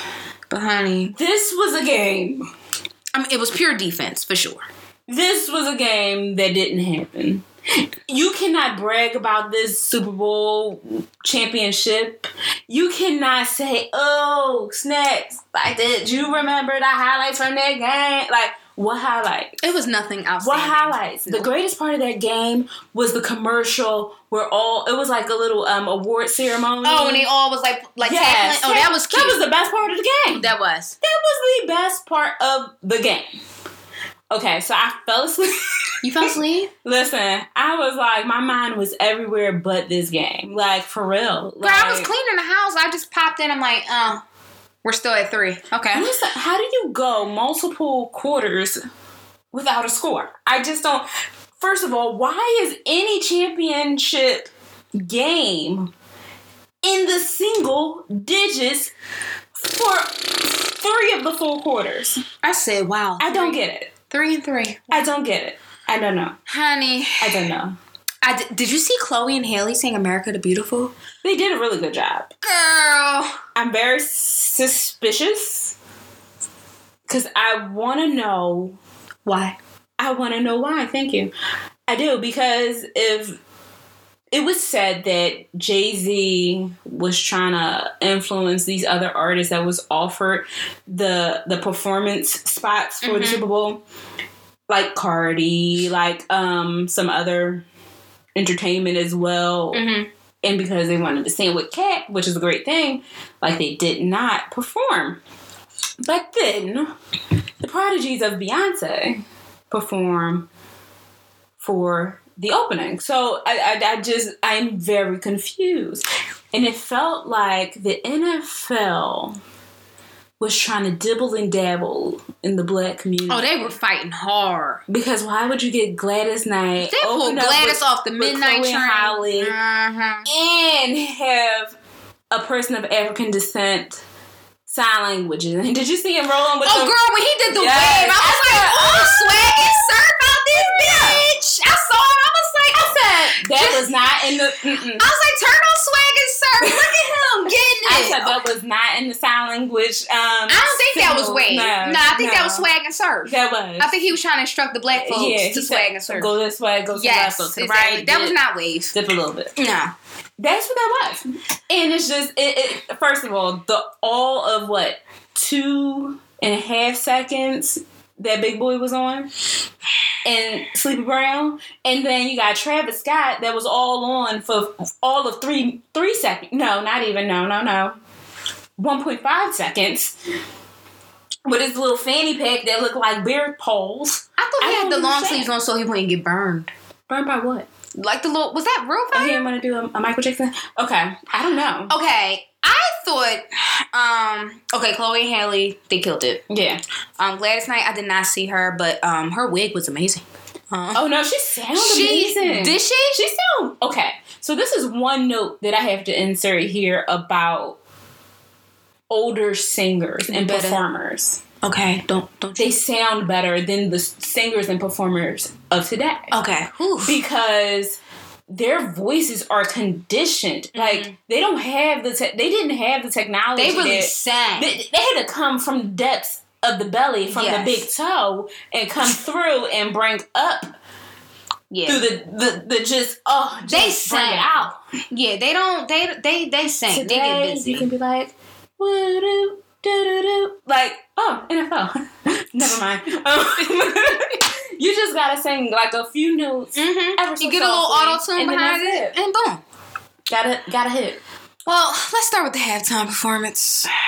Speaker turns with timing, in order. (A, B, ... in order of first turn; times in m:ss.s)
0:00.5-0:01.1 A
0:01.1-0:02.4 B
0:03.1-0:04.6 A
0:05.1-0:07.4 B
0:08.1-0:19.6 B
0:19.6-0:21.5 A
0:20.4-0:27.3 B
0:26.8-0:29.4 A
0:28.0-0:30.5 B
0:30.3-0:31.0 A
0:31.0-0:33.3 B
0:34.3-0:42.1 B
0:36.0-0:36.7 A
0:41.6-0:44.2 A
0:44.8-0:46.1 A
0:45.9-0:48.8 B
0:49.5-0:51.0 B
0:51.6-0:55.9 B
0:56.8-0:58.9 B
0:59.5-1:02.2 B
1:02.4-1:05.1 A
1:03.2-1:03.9 B
1:04.9-1:06.4 B
1:06.5-1:07.5 A
1:07.2-1:07.8 B
1:08.2-1:10.9 A
1:11.2-1:12.3 B
1:12.4-1:13.4 A
1:13.5-1:15.8 B
1:17.1-1:18.8 B
1:19.2-1:19.6 A
1:20.0-1:21.3 B
1:21.9-1:23.4 B
1:24.3-1:33.8 B
1:33.0-1:33.4 A
1:34.7-1:37.6 B
1:38.3-1:39.8 B
1:39.7-1:40.1 A
1:40.4-1:45.2 B
1:46.0-1:46.9 B
1:47.6-1:50.5 B
1:51.6-1:59.4 B
2:00.4-2:03.7 B
2:03.3-2:04.8 A
2:04.9-2:09.5 B
2:06.8-2:10.3 A
2:10.2-2:11.8 B
2:12.3-2:14.0 B
2:14.7-2:16.9 B
2:16.6-2:24.0 A
2:17.5-2:19.8 B
2:20.6-2:21.2 B
2:22.8-2:25.1 B
2:25.0-2:28.4 A
2:26.6-2:26.8 B
2:27.8-2:32.6 B
2:30.5-2:36.4 A
2:33.2-2:34.0 B
2:34.9-2:38.4 B
2:36.9-2:38.9 A
2:38.9-2:39.5 B
2:39.5-2:39.9 A
2:40.4-2:49.3 B
2:50.2-2:58.0 B
2:58.8-3:00.2 B
3:01.4-3:05.5 B
3:04.4-3:06.7 A
3:07.1-3:07.7 B
3:07.9-3:09.5 A
3:09.1-3:11.9 B
3:11.9-3:16.4 A
3:16.5-3:16.8 B
3:17.2-3:21.0 A
3:20.9-3:27.8 B
3:21.7-3:23.2 A
3:29.1-3:31.4 B
3:30.2-3:30.8 A
3:31.6-3:32.7 A
3:32.6-3:36.3 B
3:36.3-3:37.2 A
3:37.0-3:50.8 B
3:40.7-3:41.1 A
3:43.6-3:44.7 A
3:47.3-3:47.9 A
3:51.7-3:52.0 A
3:51.8-3:54.8 B
3:53.7-3:54.6 A
3:55.1-3:57.9 A
3:56.9-4:09.2 B
4:06.8-4:09.6 A
4:10.3-4:11.2 B
4:11.6-4:13.9 A